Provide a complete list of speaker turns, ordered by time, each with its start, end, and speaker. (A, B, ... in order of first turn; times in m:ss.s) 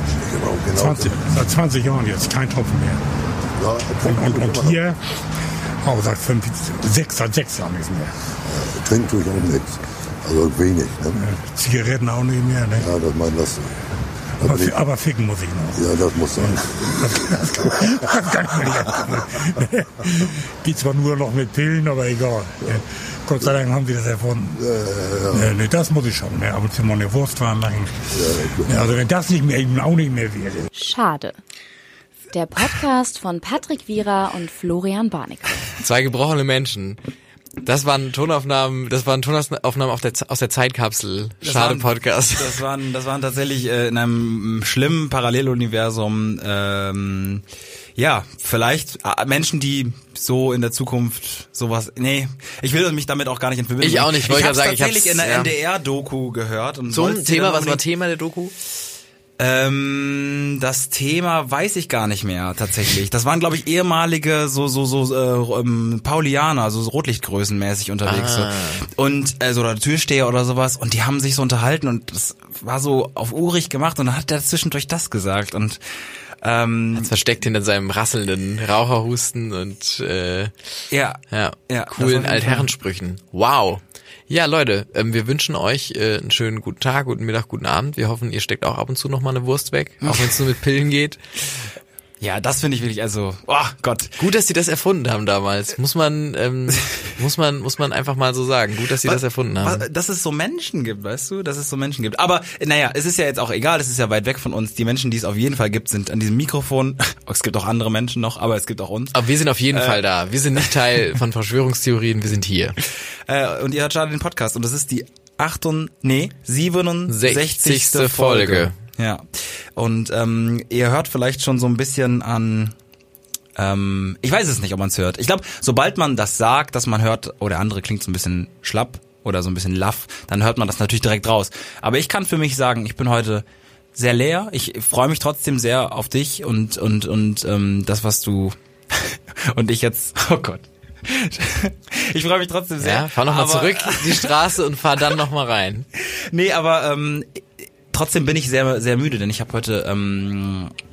0:00.2-0:01.3 A
0:00.7-0:03.0 B
0:03.6-0:04.9 A
0:04.0-0:05.0 B
0:05.8-0:08.1 B
0:08.5-0:11.3 A
0:11.2-0:12.9 B
0:12.8-0:13.7 A
0:14.4-0:14.8 A
0:14.4-0:24.6 B
0:15.8-0:17.8 A
0:24.6-0:25.5 A
0:25.3-0:30.7 B
0:28.1-0:29.0 A
0:30.8-0:31.4 C
0:32.3-0:35.7 C
0:35.8-0:37.0 D
0:37.6-0:42.6 D
0:41.4-0:47.4 E
0:48.0-0:57.8 E
0:53.8-0:55.5 D
0:56.9-0:58.5 D
0:59.4-1:15.8 E
1:08.0-1:08.9 D
1:16.4-1:17.2 E
1:17.0-1:20.5 D
1:20.9-1:22.7 E
1:21.3-1:31.2 D
1:30.0-1:30.4 E
1:32.2-1:34.2 E
1:34.2-1:39.9 D
1:39.0-1:50.0 E
1:49.1-1:52.8 D
1:52.8-2:02.8 E
1:57.1-1:58.8 D
2:03.6-2:24.4 E
2:22.8-2:25.9 D
2:26.0-2:30.7 E